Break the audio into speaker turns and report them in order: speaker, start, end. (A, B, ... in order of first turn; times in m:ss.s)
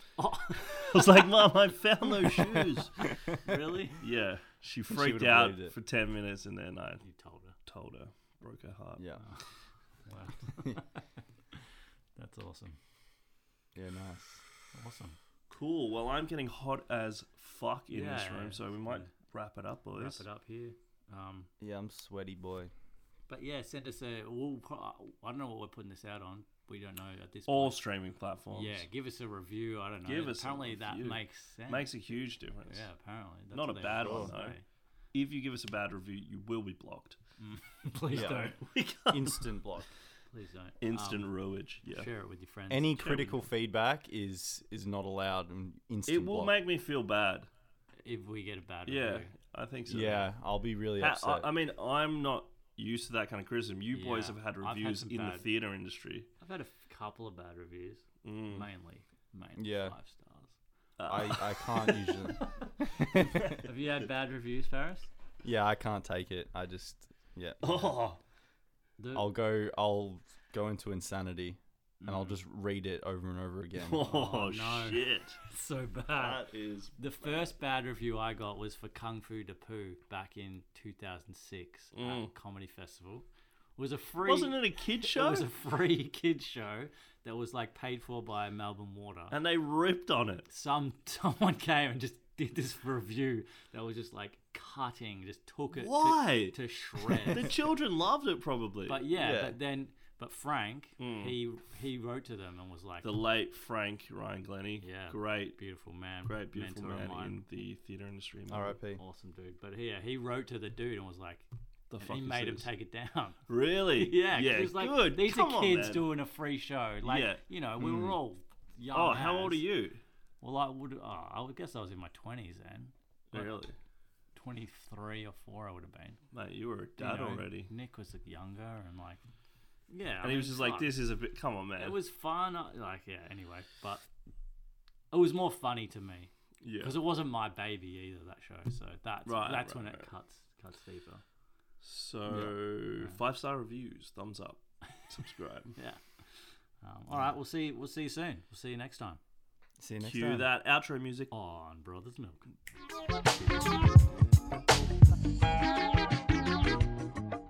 0:00.2-0:01.2 A
0:00.5-0:03.1 B
0:03.4-0:04.0 A
0:04.0-0:07.0 B
0:04.9-0:05.8 C
0:07.0-0:07.6 A
0:07.7-0:09.1 B
0:10.1-0:11.1 A
0:12.2-0:12.8 A
0:13.8-0:14.4 C
0:14.7-0:15.2 A
0:15.5-0:20.2 B
0:17.9-0:19.1 A
0:20.0-0:21.5 A
0:21.6-0:22.7 C
0:23.3-0:27.8 A
0:27.5-0:28.8 B
0:28.5-0:34.6 A
0:30.1-0:32.8 B
0:33.5-0:34.6 B
0:34.0-0:34.3 C
0:35.1-0:37.2 B
0:37.4-0:38.6 A
0:38.1-0:39.5 B
0:38.1-0:39.9 C
0:40.3-0:41.3 A
0:40.8-0:42.1 B
0:41.9-0:43.4 A
0:42.7-0:46.6 C
0:46.1-0:47.5 B
0:48.0-0:49.3 A
0:48.9-0:50.3 B
0:49.9-0:50.3 A
0:49.9-0:51.5 C
0:51.0-0:56.3 B
0:53.9-0:55.5 A
0:56.4-1:00.6 A
0:58.2-0:58.7 B
0:59.6-0:59.9 C
1:01.0-1:01.7 B
1:01.1-1:03.6 C
1:01.8-1:02.7 A
1:03.5-1:05.1 A
1:05.4-1:07.6 C
1:07.6-1:08.2 B
1:09.0-1:09.3 A
1:09.1-1:14.1 C
1:12.0-1:12.4 A
1:13.8-1:15.4 B
1:14.0-1:16.5 A
1:16.1-1:17.5 B
1:17.0-1:23.3 A
1:22.0-1:22.3 B
1:23.8-1:29.4 A
1:24.2-1:25.5 B
1:29.3-1:30.5 B
1:30.5-1:37.5 A
1:35.7-1:39.0 B
1:38.9-1:43.1 A
1:39.2-1:39.6 C
1:41.0-1:41.4 B
1:43.0-1:45.6 B
1:44.8-1:47.4 A
1:46.3-1:48.8 B
1:48.5-1:49.0 C
1:49.0-1:51.5 A
1:51.9-1:52.7 B
1:52.0-1:59.6 A
1:53.5-1:56.1 B
1:57.0-1:58.2 B
1:58.9-2:00.0 B
2:00.4-2:03.5 A
2:03.3-2:03.8 B
2:04.4-2:06.2 A
2:06.3-2:07.7 B
2:07.0-2:09.2 A
2:09.9-2:10.9 A
2:10.2-2:12.0 B
2:11.8-2:14.1 A
2:15.1-2:21.2 A
2:16.6-2:17.0 B
2:19.3-2:20.1 B
2:21.8-2:25.8 B
2:25.8-2:26.0 A
2:26.8-2:29.2 A
2:29.8-2:30.5 C
2:30.0-2:31.3 B
2:31.3-2:32.5 A